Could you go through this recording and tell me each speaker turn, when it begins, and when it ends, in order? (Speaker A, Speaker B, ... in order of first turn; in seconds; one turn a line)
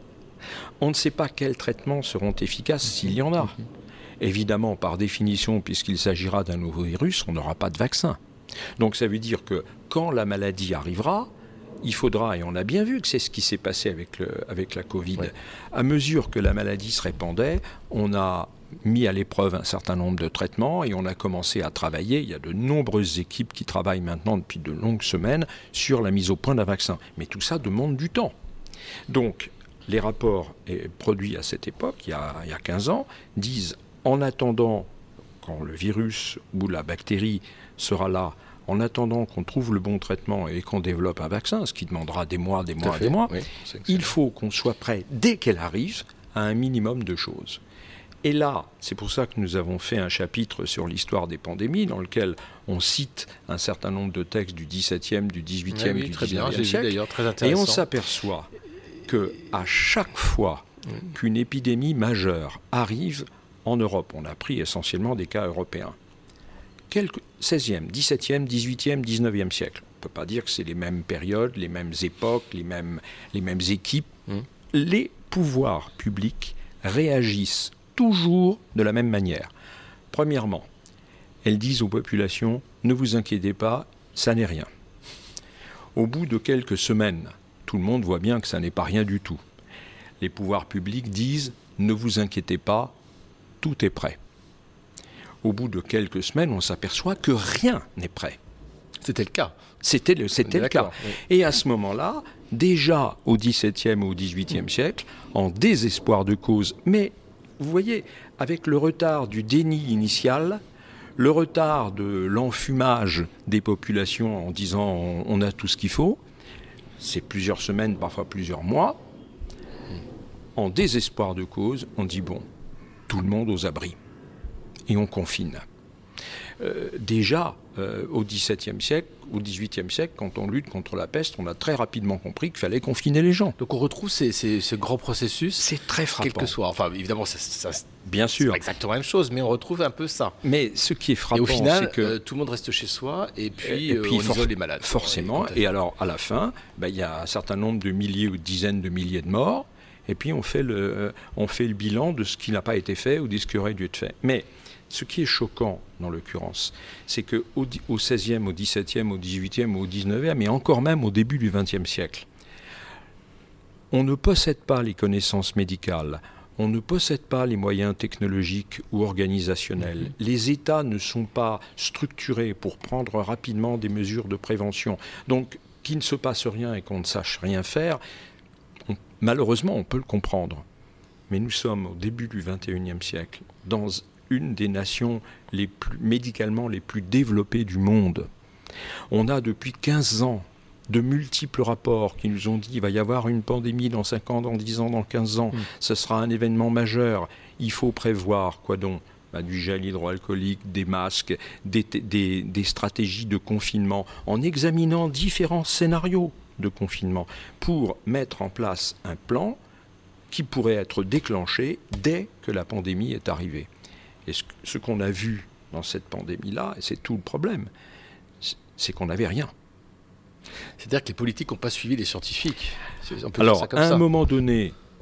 Speaker A: 0.8-3.6
Speaker A: 4.2-8.2
Speaker A: 8.8-11.3
Speaker A: 11.8-28.3
Speaker A: 29.1-47.6
Speaker B: 42.8-44.0
Speaker A: 48.2-58.5
Speaker B: 55.7-57.8
Speaker A: 59.0-66.0
Speaker A: 66.9-74.2
Speaker A: 74.7-79.5
Speaker A: 80.1-80.7
Speaker A: 81.4-84.7
Speaker A: 85.9-89.4
Speaker A: 90.2-92.9
Speaker A: 93.6-94.2
Speaker A: 95.4-98.4
Speaker B: 99.0-99.5
Speaker A: 99.8-110.6
Speaker B: 100.4-101.2
Speaker A: 111.2-116.2
Speaker A: 117.0-119.0
Speaker A: 120.5-122.5
Speaker A: 123.1-124.0
Speaker A: 124.9-125.6
Speaker A: 126.6-133.6
Speaker B: 133.6-135.7
Speaker A: 135.6-136.5
Speaker B: 136.2-140.4
Speaker A: 138.0-138.6
Speaker A: 140.4-142.1
Speaker B: 141.3-145.6
Speaker A: 143.6-162.3
Speaker A: 163.9-178.0
Speaker A: 178.9-180.6
Speaker A: 181.3-188.3
Speaker A: 189.1-209.6
Speaker A: 210.3-213.7
Speaker A: 214.2-217.7
Speaker A: 218.4-219.5
Speaker B: 220.8-224.0
Speaker A: 223.4-224.7